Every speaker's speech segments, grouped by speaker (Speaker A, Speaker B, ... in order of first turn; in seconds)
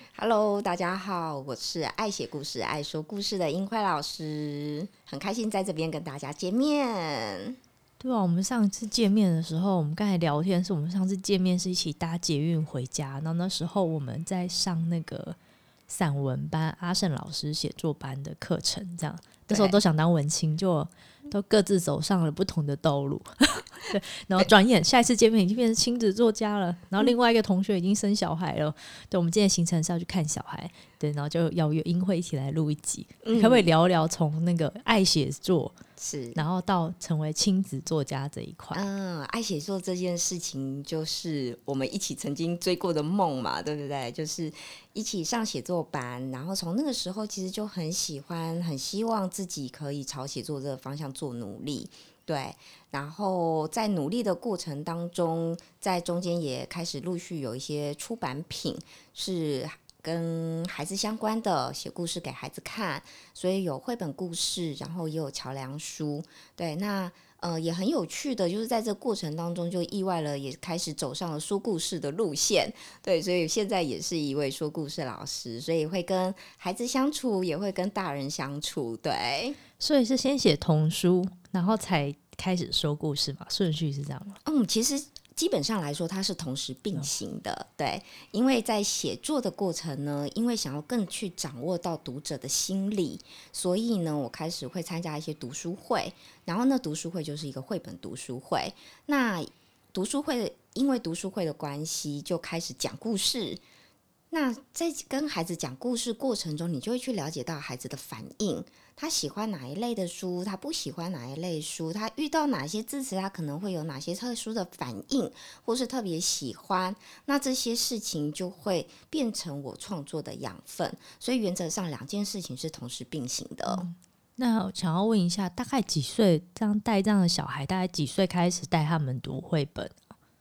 Speaker A: 0.1-7.6, 19.5-19.8, 33.2-33.7, 36.0-36.4, 38.7-79.6, 84.5-103.6, 104.3-123.9
Speaker B: 8.0-15.4, 15.9-35.8, 36.4-38.8, 79.8-84.4, 123.7-130.0